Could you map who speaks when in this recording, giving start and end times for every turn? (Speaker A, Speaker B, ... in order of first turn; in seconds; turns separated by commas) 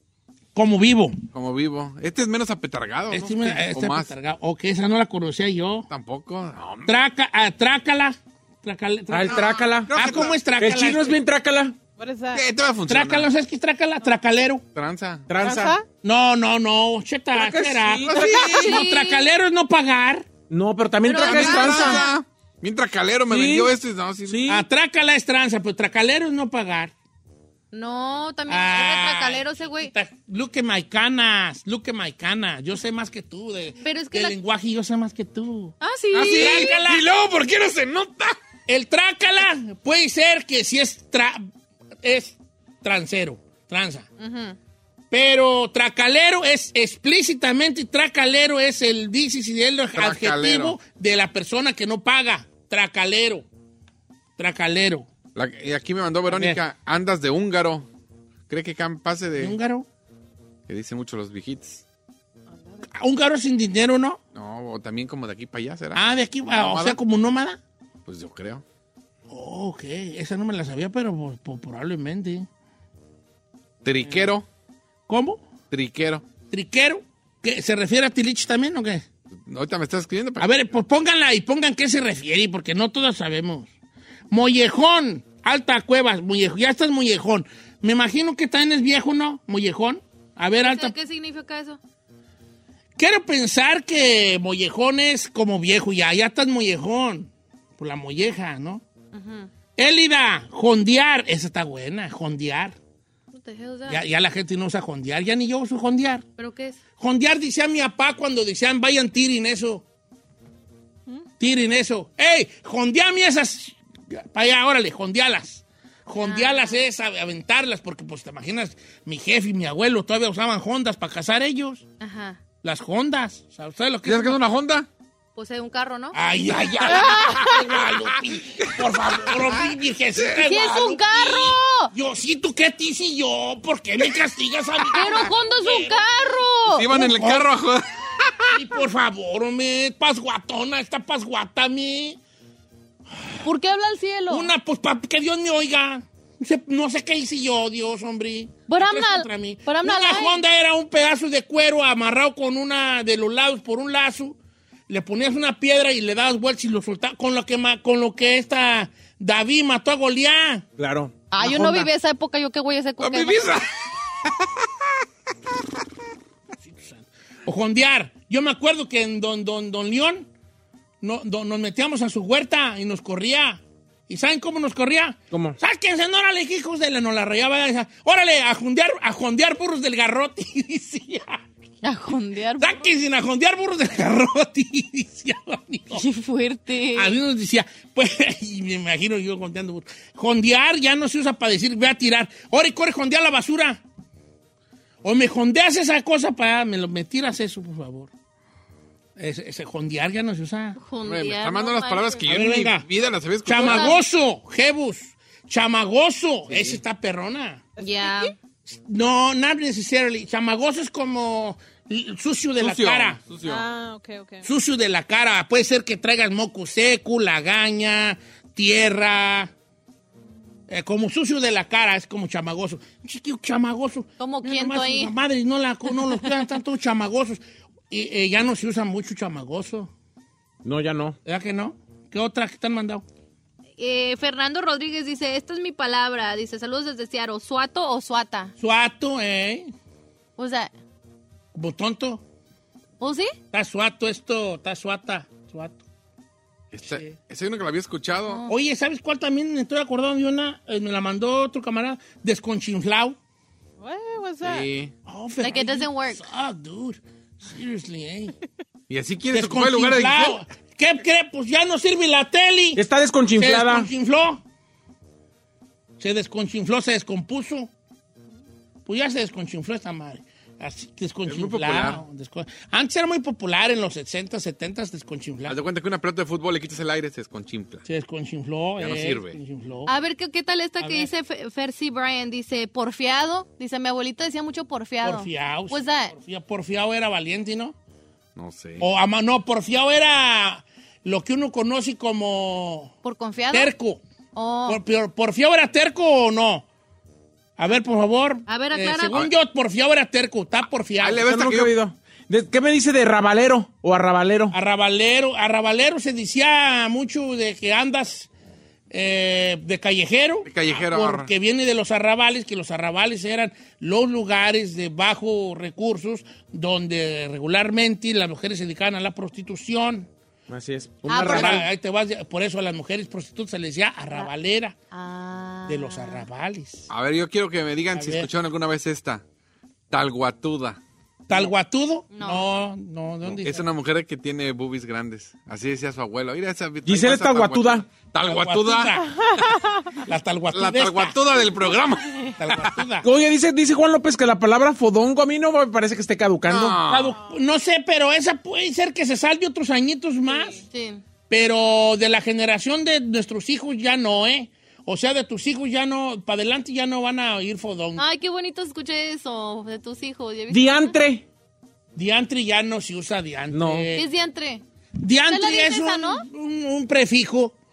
Speaker A: 0.5-1.2, Speaker B: 1.3-4.1, Speaker A: 3.1-5.9, Speaker B: 5.9-7.0, Speaker A: 6.8-11.2, Speaker C: 9.1-9.9, Speaker B: 9.3-10.5, Speaker C: 10.6-11.8, Speaker D: 12.0-12.4, Speaker B: 12.3-13.3, Speaker A: 12.9-14.6, Speaker B: 14.7-15.3, Speaker C: 15.3-15.8, Speaker D: 15.4-15.8, Speaker A: 16.0-20.3, Speaker C: 17.3-18.5, Speaker B: 18.0-18.8, Speaker E: 18.4-19.2, Speaker C: 20.5-22.1, Speaker E: 21.0-22.1, Speaker B: 21.2-24.4, Speaker C: 23.3-23.7, Speaker C: 24.2-24.6, Speaker A: 24.5-26.9, Speaker E: 27.7-29.9, Speaker A: 28.5-35.7, Speaker E: 33.8-34.4, Speaker E: 35.8-36.8, Speaker B: 36.1-38.4, Speaker A: 36.3-37.0, Speaker A: 38.7-41.5, Speaker A: 42.0-44.1, Speaker E: 44.2-44.6, Speaker A: 45.1-53.5, Speaker B: 49.9-50.8, Speaker A: 54.4-55.1, Speaker B: 55.3-57.9, Speaker A: 56.3-56.6, Speaker B: 58.5-59.6, Speaker A: 59.4-59.9, Speaker B: 60.7-61.8, Speaker D: 62.5-62.8, Speaker A: 62.9-64.2, Speaker B: 64.3-67.0, Speaker A: 65.9-67.6, Speaker B: 68.0-68.6, Speaker A: 69.3-72.5, Speaker B: 73.8-74.5, Speaker A: 75.1-75.5, Speaker B: 75.7-76.2, Speaker A: 76.5-79.0, Speaker B: 79.4-80.8, Speaker A: 80.4-83.7, Speaker A: 84.3-90.9, Speaker E: 90.6-91.8, Speaker A: 93.0-98.8, Speaker E: 99.1-99.5, Speaker A: 99.8-102.8, Speaker E: 103.3-104.0, Speaker A: 103.9-106.2, Speaker E: 106.4-106.8, Speaker A: 107.0-109.8, Speaker A: 111.4-121.8, Speaker E: 116.2-116.8, Speaker E: 122.0-122.4, Speaker A: 122.6-124.4, Speaker B: 124.0-124.9, Speaker E: 125.3-126.2, Speaker A: 126.1-136.0, Speaker E: 126.8-127.5, Speaker D: 127.0-127.6, Speaker B: 128.6-129.7, Speaker E: 130.3-131.9, Speaker E: 134.9-136.9, Speaker B: 136.7-138.6, Speaker A: 136.9-137.5, Speaker A: 138.5-142.2, Speaker E: 143.4-144.5, Speaker A: 144.3-154.3, Speaker E: 148.7-150.4, Speaker A: 154.9-160.6, Speaker C: 160.8-161.9, Speaker E: 161.3-163.6, Speaker B: 163.0-163.7, Speaker A: 166.7-170.3, Speaker A: 171.0-181.4, Speaker E: 181.8-182.8, Speaker A: 182.6-186.0, Speaker E: 185.9-187.1, Speaker A: 186.9-193.8, Speaker A: 195.0-198.1, Speaker A: 199.2-200.8, Speaker E: 200.8-202.2, Speaker B: 201.0-204.0, Speaker A: 202.2-202.8, Speaker A: 203.4-207.6, Speaker E: 203.6-204.0, Speaker B: 206.5-206.8, Speaker D: 207.8-208.3, Speaker E: 207.8-208.3, Speaker A: 208.7-213.2, Speaker B: 212.6-213.7, Speaker D: 213.4-214.4, Speaker A: 214.4-219.5, Speaker A: 220.7-229.9, Speaker E: 224.2-225.1, Speaker C: 230.6-231.2, Speaker A: 231.2-233.0, Speaker E: 233.8-238.5, Speaker A: 238.6-239.7, Speaker E: 240.4-240.7, Speaker A: 241.5-242.2, Speaker E: 243.0-243.3, Speaker A: 243.5-245.8, Speaker B: 246.7-248.4, Speaker A: 246.8-247.2, Speaker A: 248.5-253.2, Speaker D: 253.8-254.7, Speaker B: 254.4-254.9, Speaker A: 255.1-258.4, Speaker E: 255.4-256.2, Speaker B: 258.9-260.4, Speaker A: 259.3-262.8, Speaker C: 262.8-263.9, Speaker A: 263.4-264.4, Speaker A: 266.0-267.7, Speaker A: 268.9-275.6, Speaker B: 271.3-272.0, Speaker B: 275.5-277.8, Speaker A: 277.8-279.9, Speaker B: 278.8-279.4, Speaker E: 279.9-286.1, Speaker A: 280.8-281.1, Speaker A: 285.0-287.7, Speaker B: 288.4-288.9, Speaker A: 288.8-292.9, Speaker E: 293.0-293.7, Speaker A: 293.5-294.0, Speaker E: 294.3-294.8, Speaker A: 294.7-296.6, Speaker A: 297.6-301.2, Speaker E: 298.5-299.2, Speaker B: 301.0-301.8, Speaker C: 301.2-304.6, Speaker A: 304.5-308.3, Speaker A: 308.9-320.1, Speaker B: 310.4-311.3, Speaker C: 320.5-321.6, Speaker E: 321.1-321.6, Speaker A: 321.1-324.8, Speaker E: 324.9-326.2, Speaker A: 325.7-326.9, Speaker B: 326.9-329.2, Speaker A: 327.9-328.3, Speaker B: 329.9-330.8, Speaker A: 331.3-333.6, Speaker E: 332.1-332.4, Speaker B: 333.2-339.0, Speaker C: 336.8-337.9, Speaker A: 338.2-339.1, Speaker D: 339.1-339.9, Speaker A: 340.0-341.2, Speaker B: 340.5-342.7, Speaker A: 342.4-343.1, Speaker C: 343.0-346.8, Speaker B: 346.4-347.2, Speaker A: 346.9-350.6, Speaker D: 350.3-350.6, Speaker E: 350.7-351.0, Speaker A: 351.3-358.0, Speaker E: 357.9-360.9, Speaker C: 360.5-361.2, Speaker A: 361.9-364.1, Speaker C: 363.5-363.9, Speaker E: 363.9-364.6, Speaker A: 365.0-367.5, Speaker E: 365.3-366.2